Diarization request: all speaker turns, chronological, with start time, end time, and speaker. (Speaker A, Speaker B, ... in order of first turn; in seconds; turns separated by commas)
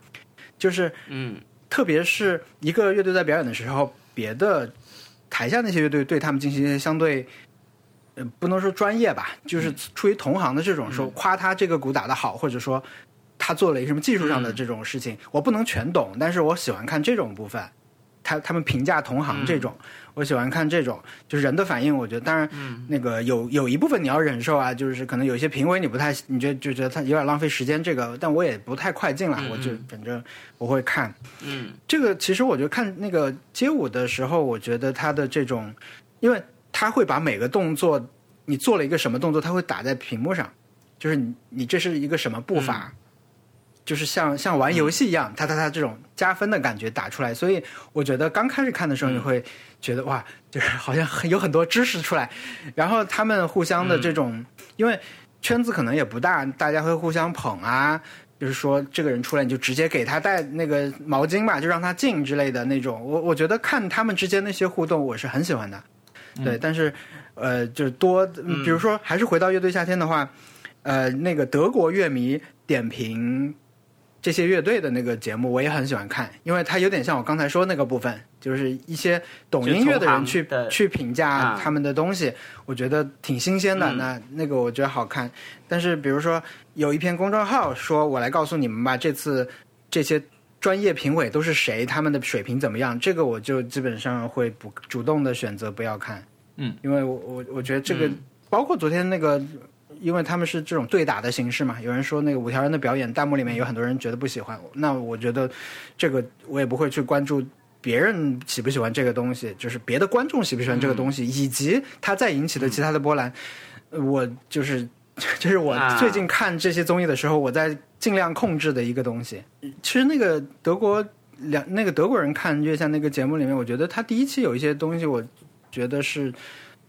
Speaker A: 0.6-1.0, Speaker B: 1.1-1.4, Speaker A: 1.7-4.7, Speaker A: 5.3-7.3, Speaker A: 8.2-12.8, Speaker B: 10.9-11.1, Speaker A: 13.4-17.7, Speaker B: 14.2-14.6, Speaker A: 18.2-31.2, Speaker B: 19.3-19.7, Speaker B: 22.5-22.9, Speaker B: 29.4-29.9, Speaker B: 31.4-31.8, Speaker A: 31.9-42.9, Speaker B: 42.5-42.9, Speaker A: 43.9-65.8, Speaker B: 49.0-49.3, Speaker B: 53.8-54.2, Speaker A: 66.4-70.3, Speaker B: 68.5-68.8, Speaker A: 70.8-73.6, Speaker A: 74.2-96.2, Speaker B: 79.6-80.8, Speaker B: 81.3-81.7, Speaker B: 83.8-84.1, Speaker A: 96.8-113.3, Speaker B: 97.9-98.2, Speaker B: 110.7-111.1, Speaker A: 113.9-126.3, Speaker B: 115.7-116.2